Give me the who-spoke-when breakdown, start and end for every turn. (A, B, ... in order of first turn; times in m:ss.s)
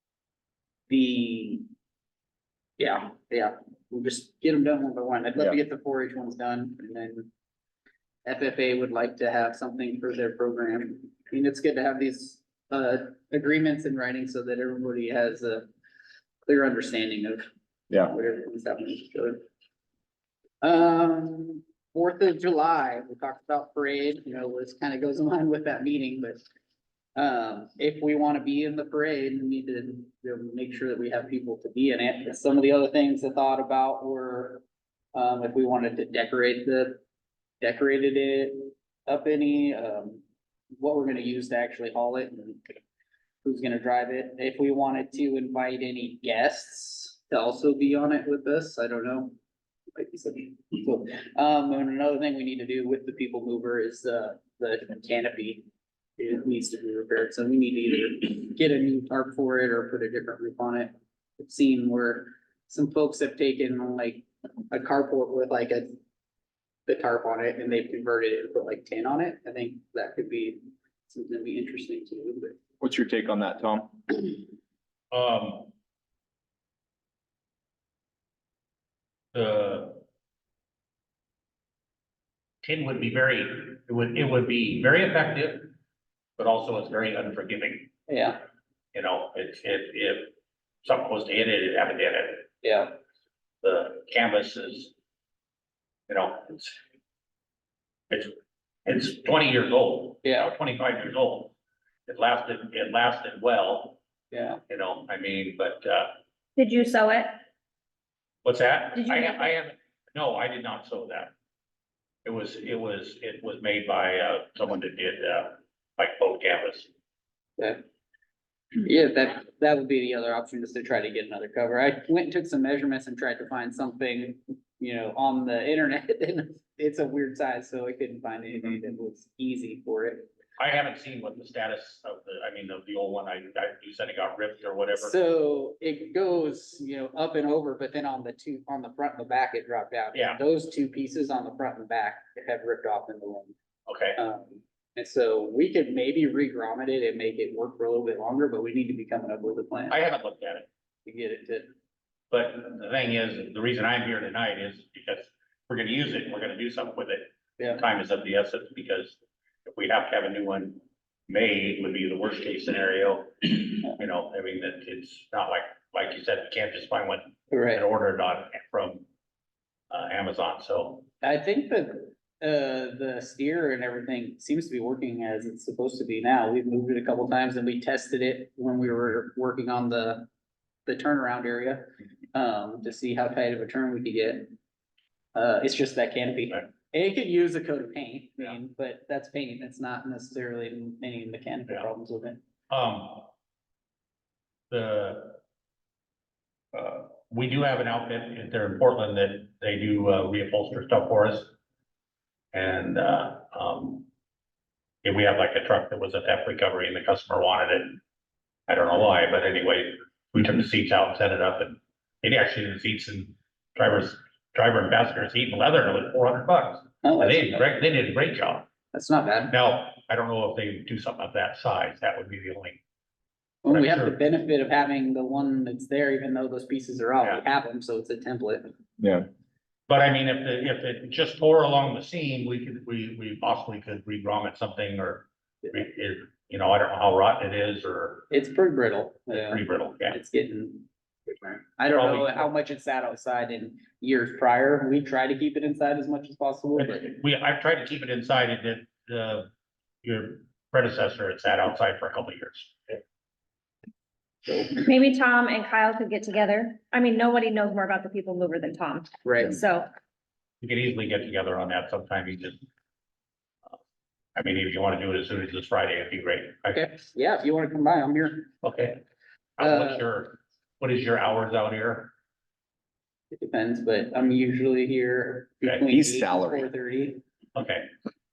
0:00.9-0:01.7 A
0:02.8-0:07.3 A
0:08.2-0:15.7 A
0:16.4-0:17.4 A
0:18.0-0:19.4 A
0:20.6-0:26.4 A
0:27.2-0:34.6 A
0:35.1-0:37.0 A
0:37.6-0:40.2 A
0:40.8-0:42.8 A
0:43.4-0:49.4 A
0:49.9-0:55.7 A
0:56.2-1:05.9 A
1:06.9-1:12.6 A
1:12.8-1:14.0 B
1:15.1-1:15.7 C
1:19.3-1:20.0 C
1:22.6-1:25.7 C
1:26.4-1:27.9 C
1:28.1-1:28.4 A
1:28.9-1:30.3 C
1:30.8-1:32.5 C
1:32.6-1:33.0 A
1:33.6-1:34.9 C
1:36.1-1:36.8 C
1:38.9-1:41.5 C
1:40.2-1:40.5 A
1:42.1-1:44.0 C
1:44.3-1:44.6 A
1:44.7-1:46.1 C
1:46.6-1:47.4 D
1:48.4-1:51.3 C
1:49.0-1:49.4 D
1:52.2-1:56.9 C
1:57.6-1:57.8 A
1:58.8-2:10.3 A
2:10.6-2:15.2 C
2:15.0-2:23.6 A
2:20.1-2:20.4 C
2:23.9-2:24.2 C
2:24.2-2:30.0 A
2:29.9-2:30.7 C
2:31.0-2:31.7 A
2:32.3-2:49.0 C
2:37.6-2:37.8 A
2:47.5-2:47.8 A
2:49.9-2:51.1 C
2:51.2-3:00.3 A
3:00.9-3:04.6 A
3:05.4-3:12.4 A
3:12.7-3:13.3 C
3:14.7-3:15.4 C
3:16.7-3:21.5 C
3:22.5-3:24.1 C
3:25.0-3:28.0 C
3:28.7-3:38.7 C
3:37.0-3:37.7 A
3:38.9-3:39.6 A
3:39.5-3:42.8 C
3:43.6-3:48.7 A
3:43.7-3:44.2 C
3:49.0-3:49.2 B
3:49.9-3:58.2 C
3:58.3-4:07.1 A
3:59.3-4:00.2 C
4:01.9-4:02.5 C
4:06.8-4:09.5 C
4:10.0-4:13.0 C
4:14.5-4:14.8 A
4:14.8-4:19.9 D
4:19.2-4:19.6 A
4:20.6-4:22.6 C
4:24.4-4:26.8 C
4:26.7-4:28.5 A
4:28.6-4:29.0 C
4:29.6-4:32.1 C
4:29.6-4:30.0 A
4:33.3-4:37.2 A
4:35.9-4:36.7 B
4:37.6-4:37.9 C